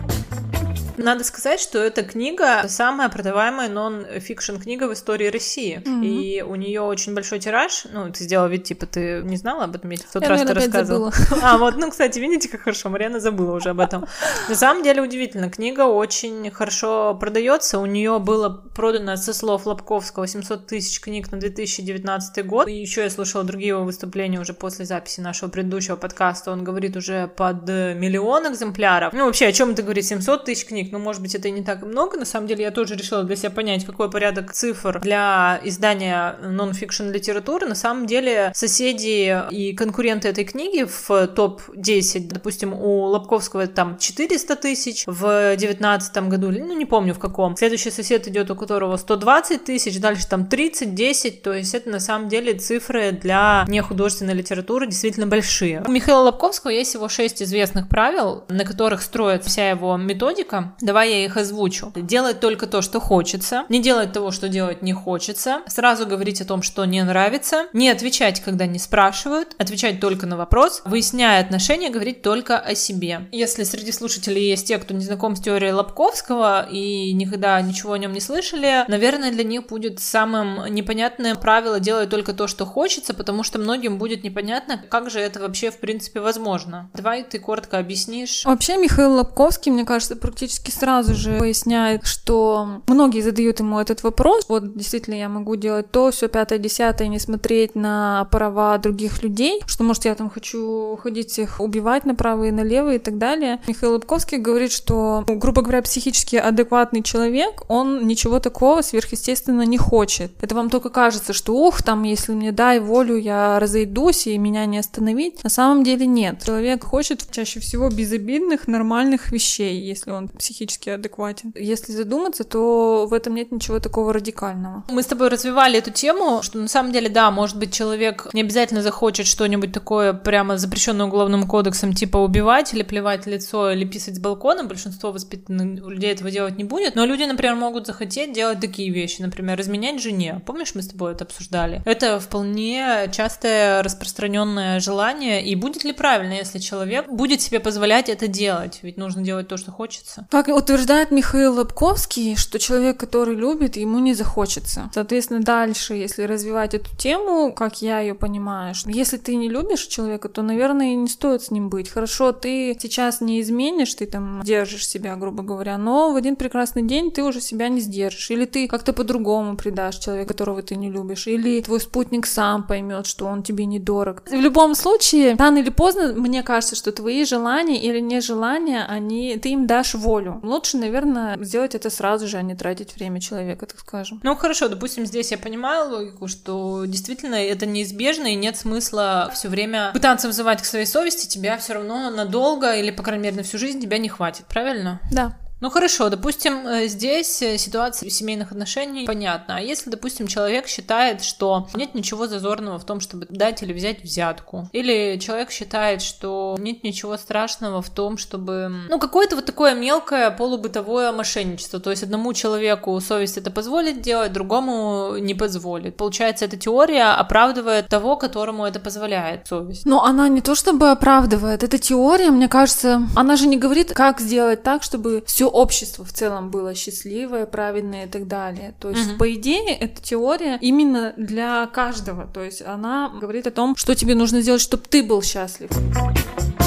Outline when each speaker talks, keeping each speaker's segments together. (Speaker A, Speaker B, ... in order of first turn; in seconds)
Speaker A: 1.0-88.5, 124.9-150.3, 184.2-195.1, 195.6-219.8, 228.9-229.2
Speaker B: 5.8-6.3, 10.2-11.7, 88.4-124.8, 150.3-184.2, 195.1-195.3, 219.8-235.7